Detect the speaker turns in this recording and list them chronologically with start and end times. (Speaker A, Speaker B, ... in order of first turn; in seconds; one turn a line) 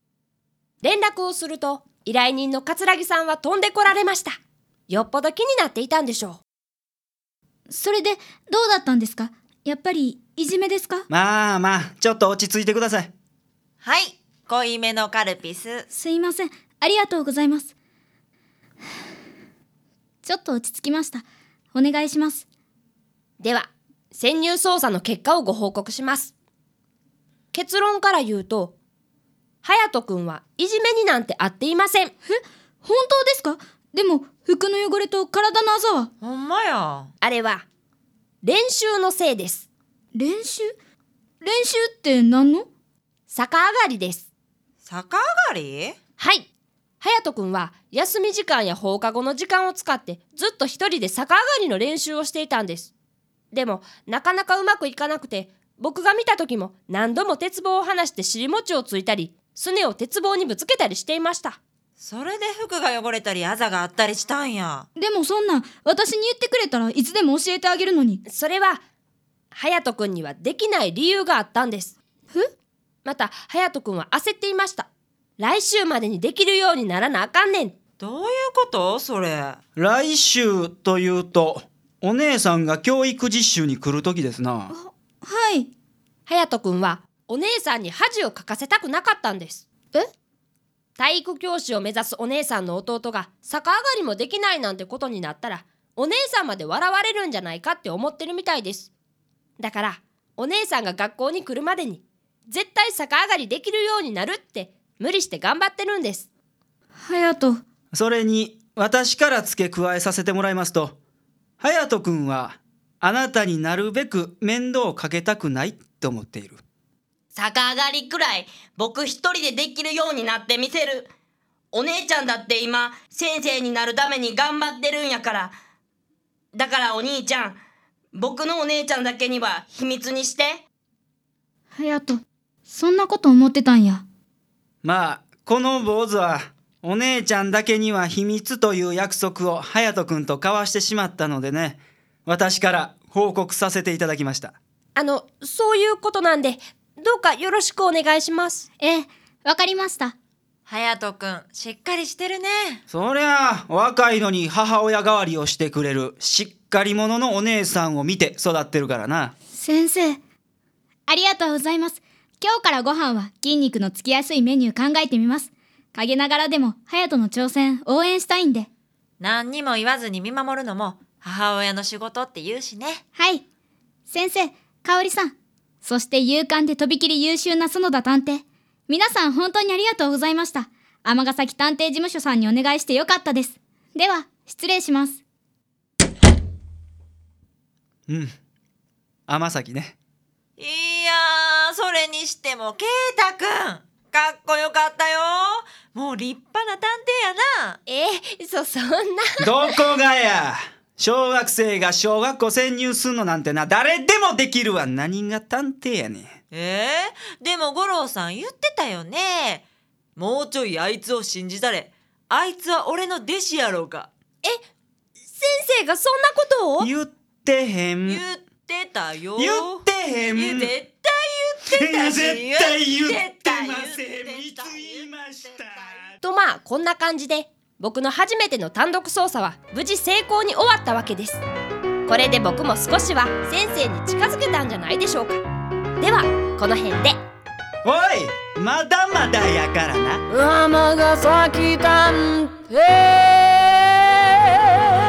Speaker A: 0.8-4.4
Speaker A: 4.9-6.4
Speaker B: 7.7-11.1
Speaker C: 11.1-13.1
Speaker D: 13.8-15.9
Speaker B: 15.9-17.7
Speaker B: 20.2-22.5
Speaker A: 23.4-26.3
Speaker A: 27.5-28.8
Speaker A: 29.6-32.1
Speaker B: 32.3-36.1
Speaker D: 36.2-37.1
Speaker A: 37.2-37.6
Speaker A: 38.4-39.7
Speaker B: 40.1-40.7
Speaker B: 41.4-42.7
Speaker A: 43.3-44.3
Speaker D: 44.8-46.0
Speaker A: 46.2-46.5
Speaker A: 47.0-52.9
Speaker A: 53.5-61.6
Speaker D: 62.0-64.9
Speaker B: 65.0-68.2
Speaker A: 68.3-68.8
Speaker A: 69.5-72.0
Speaker A: 73.0-74.9
Speaker A: 75.4-77.7
Speaker D: 78.0-79.6
Speaker C: 79.8-84.7
Speaker B: 84.7-85.7
Speaker A: 86.3-89.7
Speaker A: 91.0-98.9
Speaker A: 99.6-106.3
Speaker B: 107.0-107.6
Speaker C: 107.9-111.0
Speaker C: 111.6-116.6
Speaker E: 117.3-121.1
Speaker E: 121.7-125.5
Speaker E: 126.5-127.6
Speaker E: 128.1-130.6
Speaker B: 131.7-134.1
Speaker C: 134.8-144.6
Speaker A: 145.0-148.7
Speaker B: 148.8-150.2
Speaker D: 150.7-152.8
Speaker C: 152.9-159.3
Speaker B: 159.5-160.2
Speaker B: 161.1-168.7
Speaker D: 169.2-173.0
Speaker B: 173.2-173.4
Speaker B: 174.1-185.2
Speaker C: 188.1-188.3
Speaker C: 189.3-190.0
Speaker D: 190.6-197.8
Speaker A: 197.9-199.5
Speaker C: 199.4-206.3
Speaker D: 206.5-209.7
Speaker D: 210.2-214.1
Speaker A: 215.3-216.9
Speaker C: 216.8-218.2
Speaker D: 218.1-219.8
Speaker C: 219.4-220.7
Speaker D: 220.3-225.1
Speaker C: 221.7-226.1
Speaker A: 226.2-231.4
Speaker A: 232.1-235.4
Speaker A: 236.0-237.2
Speaker C: 237.8-240.2
Speaker F: 240.3-243.9
Speaker F: 244.4-244.7